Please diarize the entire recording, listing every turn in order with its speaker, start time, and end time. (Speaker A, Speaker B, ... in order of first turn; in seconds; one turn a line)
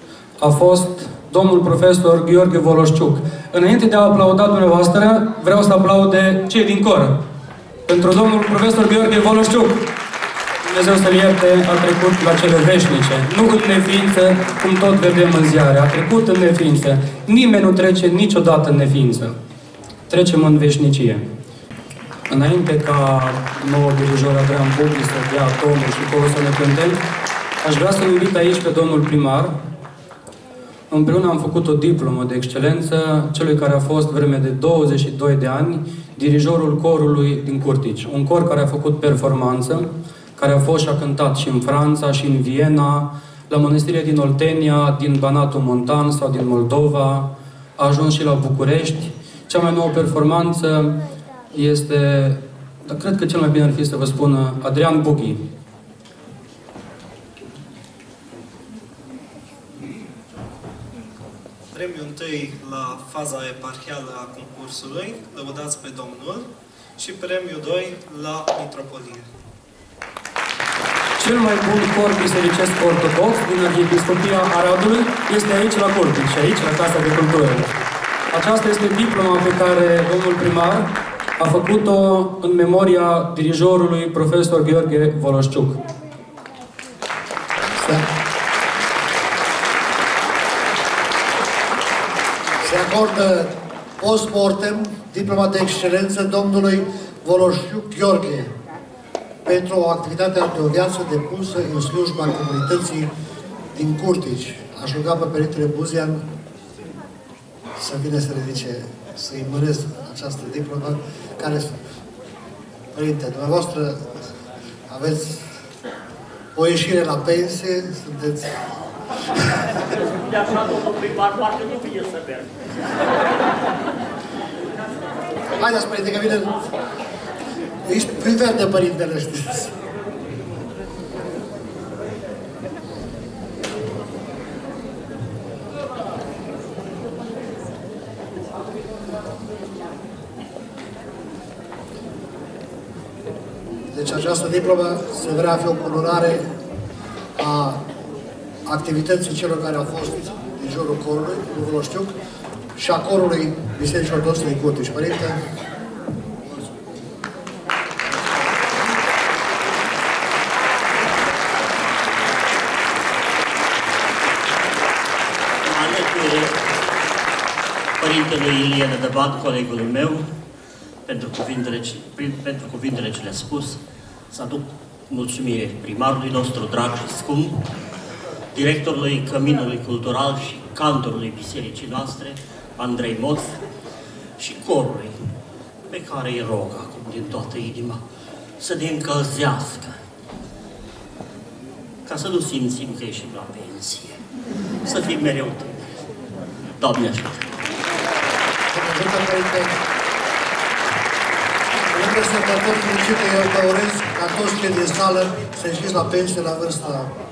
Speaker A: 0.4-7.1
Speaker A: 7.9-9.8
Speaker A: 10.7-19.3
Speaker A: 20.1-21.2
Speaker A: 22.3-27.0
Speaker A: 27.6-29.5
Speaker A: 30.9-47.3
Speaker A: 47.8-51.0
Speaker A: 51.5-55.4
Speaker B: 61.7-66.5
Speaker B: 67.0-69.2
Speaker A: 71.2-77.7
Speaker A: 78.3-85.8
Speaker C: 92.6-98.5
Speaker C: 99.5-103.1
Speaker C: 103.8-106.2
Speaker C: 107.8-111.7
Speaker C: 112.9-114.0
Speaker C: 114.9-115.5
Speaker C: 116.5-118.6
Speaker D: 120.3-122.5
Speaker C: 125.5-126.6
Speaker C: 127.8-129.7
Speaker C: 143.9-146.4
Speaker C: 147.4-147.8
Speaker C: 148.7-152.1
Speaker C: 152.8-155.4
Speaker D: 165.6-166.6
Speaker D: 168.0-170.2
Speaker D: 171.1-173.8
Speaker D: 174.3-177.7
Speaker D: 178.5-183.6
Speaker D: 184.4-185.2
Speaker D: 185.9-188.0
Speaker D: 188.6-190.0
Speaker D: 192.1-194.2
Speaker D: 194.8-195.7
Speaker D: 196.8-197.5
Speaker C: 198.7-199.8
Speaker C: 201.9-207.1